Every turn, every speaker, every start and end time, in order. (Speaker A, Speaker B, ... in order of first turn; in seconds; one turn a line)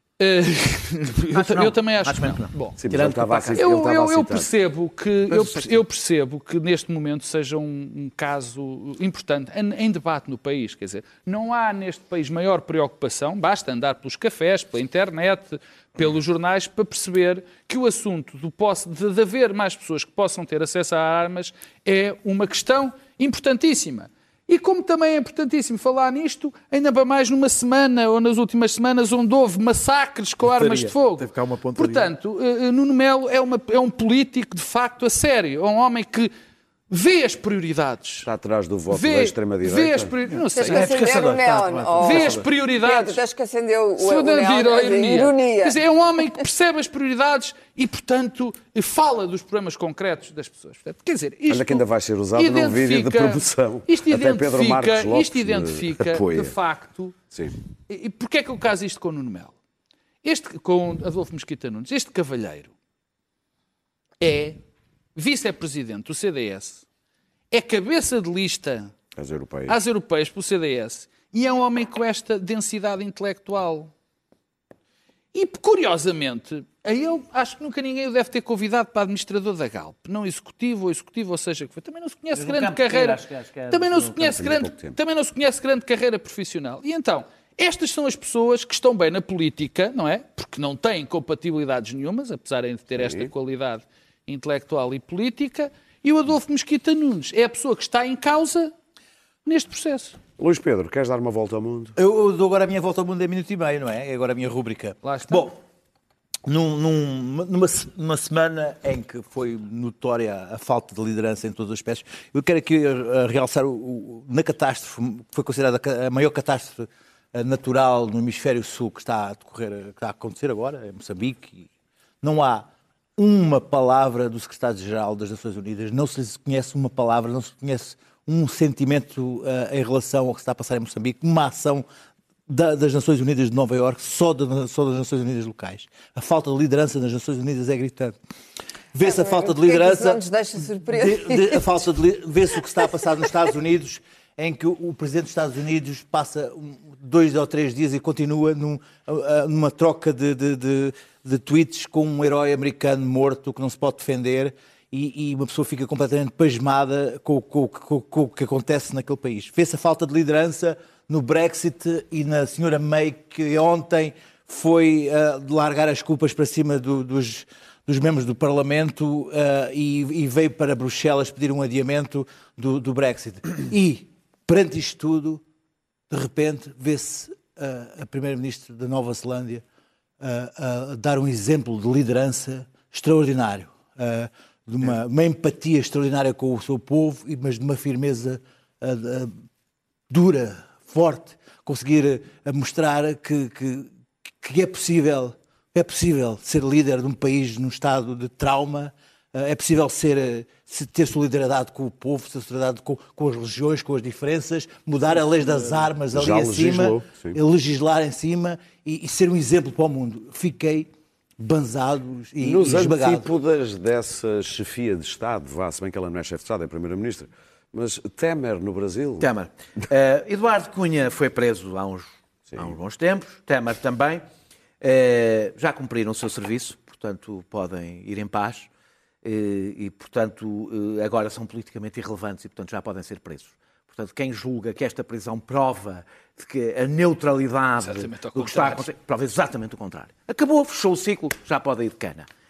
Speaker A: 0.2-2.8
Speaker B: 1.3-3.6
Speaker C: 2.8-4.5
Speaker A: 3.6-36.3
Speaker B: 5.3-5.8
Speaker B: 30.5-32.0
Speaker D: 30.6-30.9
Speaker D: 31.5-32.0
Speaker A: 36.9-38.3
Speaker C: 38.2-40.1
Speaker A: 38.9-40.9
Speaker B: 40.3-42.5
Speaker E: 40.5-45.8
Speaker A: 42.0-43.2
Speaker A: 44.0-57.2
Speaker C: 51.5-56.6
Speaker C: 57.3-57.6
Speaker A: 57.9-59.5
Speaker A: 60.2-62.7
Speaker A: 64.2-64.6
Speaker A: 65.2-66.8
Speaker A: 67.5-68.9
Speaker C: 69.2-69.8
Speaker A: 69.7-73.9
Speaker A: 75.3-83.2
Speaker B: 82.3-84.4
Speaker A: 83.7-98.7
Speaker C: 84.4-85.0
Speaker C: 92.9-93.3
Speaker A: 99.5-100.2
Speaker C: 100.4-102.0
Speaker D: 102.0-105.6
Speaker A: 105.0-105.5
Speaker D: 106.5-121.7
Speaker D: 122.2-131.8
Speaker D: 132.5-138.2
Speaker D: 138.9-140.2
Speaker E: 139.0-141.7
Speaker D: 140.8-175.4
Speaker D: 176.1-179.6
Speaker D: 180.2-189.3
Speaker D: 190.1-213.3
Speaker C: 206.1-207.4
Speaker C: 212.4-219.3
Speaker B: 219.2-224.2
Speaker B: 224.8-228.7
Speaker B: 229.2-242.3
Speaker A: 237.8-238.9